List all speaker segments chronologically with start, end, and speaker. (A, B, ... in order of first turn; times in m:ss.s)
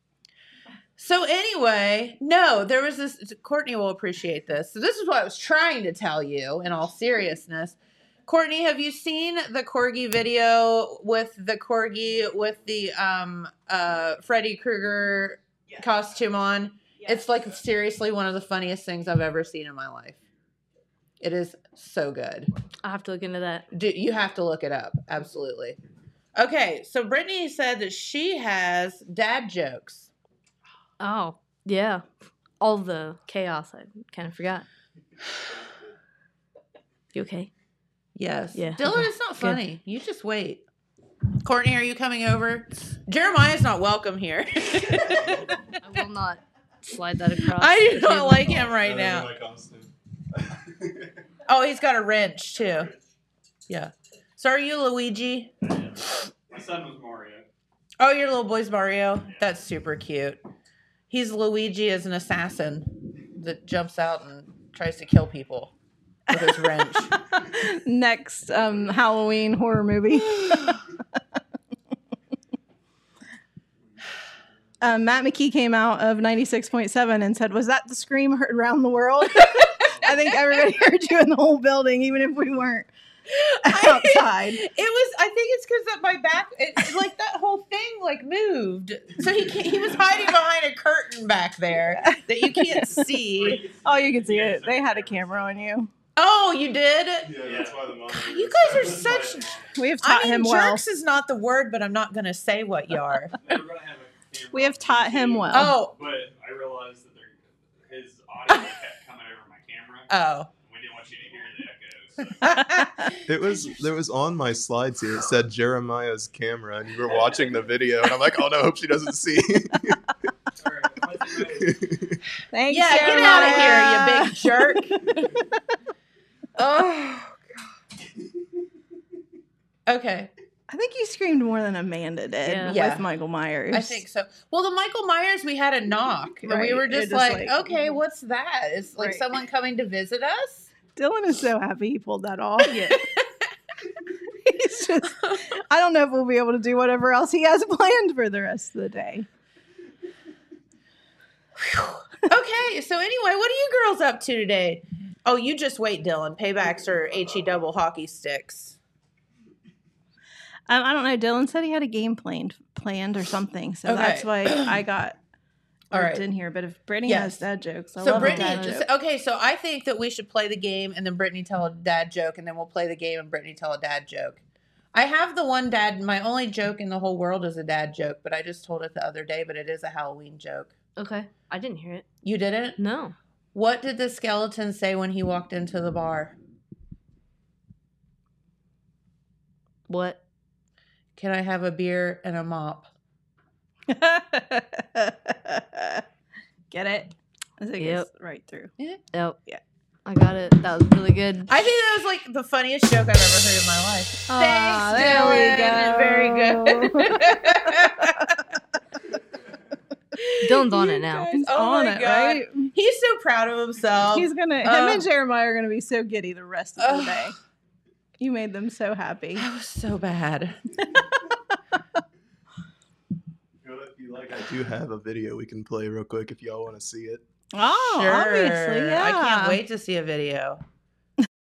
0:01.0-0:20.2 A
0:21.2-0:22.5 A
0:22.8-0:23.7 B
0:23.7-0:25.8 A
0:26.4-0:30.1 A
0:31.0-0:32.0 B
0:32.6-0:34.7 B
0:37.1-0:37.5 B
0:38.1-0:40.6 A
0:38.5-0:39.6 B
0:41.4-0:45.5 A
0:45.8-0:48.7 B
0:47.5-0:49.3 A
0:48.6-0:51.1 C
0:51.5-0:52.9 A
0:52.5-0:53.0 D
0:53.7-0:55.5 A
0:55.6-0:57.5 D
0:58.0-1:00.4 A
1:01.1-1:05.7 A
1:06.3-1:07.1 A
1:06.3-1:10.8 E
1:14.8-1:22.9 E
1:23.3-1:33.6 A
1:23.6-1:24.6 E
1:32.0-1:33.1 E
1:33.3-1:35.7 D
1:33.8-1:35.9 E
1:36.2-1:37.4 A
1:37.2-1:39.2 C
1:37.4-1:38.0 D
1:38.1-1:43.3 A
1:38.6-1:39.8 D
1:39.8-1:40.8 E
1:43.4-1:52.6 D
1:44.5-1:45.8 E
1:45.5-1:45.9 A
1:50.1-1:50.5 A
1:52.4-1:53.1 A
1:53.3-2:00.0 C
2:00.6-2:01.8 D
2:01.5-2:02.2 C
2:02.5-2:05.0 E
2:02.7-2:05.2 A
2:06.6-2:07.4 A
2:09.9-2:10.3 A
2:10.7-2:14.0 E
2:12.4-2:12.8 B
2:12.7-2:13.1 A
2:13.7-2:20.7 A
2:16.4-2:17.9 E
2:19.0-2:19.2 E
2:20.9-2:23.0 E
2:24.4-2:29.3 E
2:25.2-2:25.5 A
2:31.6-2:38.8 A
2:40.7-2:45.2 E
2:43.8-2:44.8 A
2:45.9-2:48.9 E
2:45.9-2:46.2 A
2:47.0-2:47.4 A
2:48.0-2:54.4 A
2:48.1-2:48.8 B
2:54.9-3:00.7 A
3:01.0-3:02.0 B
3:02.2-3:02.8 A
3:02.8-3:03.2 B
3:03.5-3:06.4 A
3:09.9-3:10.2 B
3:11.2-3:12.9 A
3:13.9-3:16.0 E
3:16.7-3:18.7 E
3:17.8-3:18.1 B
3:19.1-3:19.4 B
3:20.0-3:21.5 B
3:21.5-3:28.4 A
3:24.3-3:26.0 B
3:24.8-3:28.2 E
3:30.2-3:35.1 A
3:30.4-3:31.3 B
3:31.3-3:32.7 E
3:34.1-3:37.4 E
3:36.8-3:37.3 A
3:38.2-3:39.4 E
3:39.4-3:40.6 A
3:43.6-3:47.2 C
3:47.5-3:49.6 E
3:47.9-3:50.6 A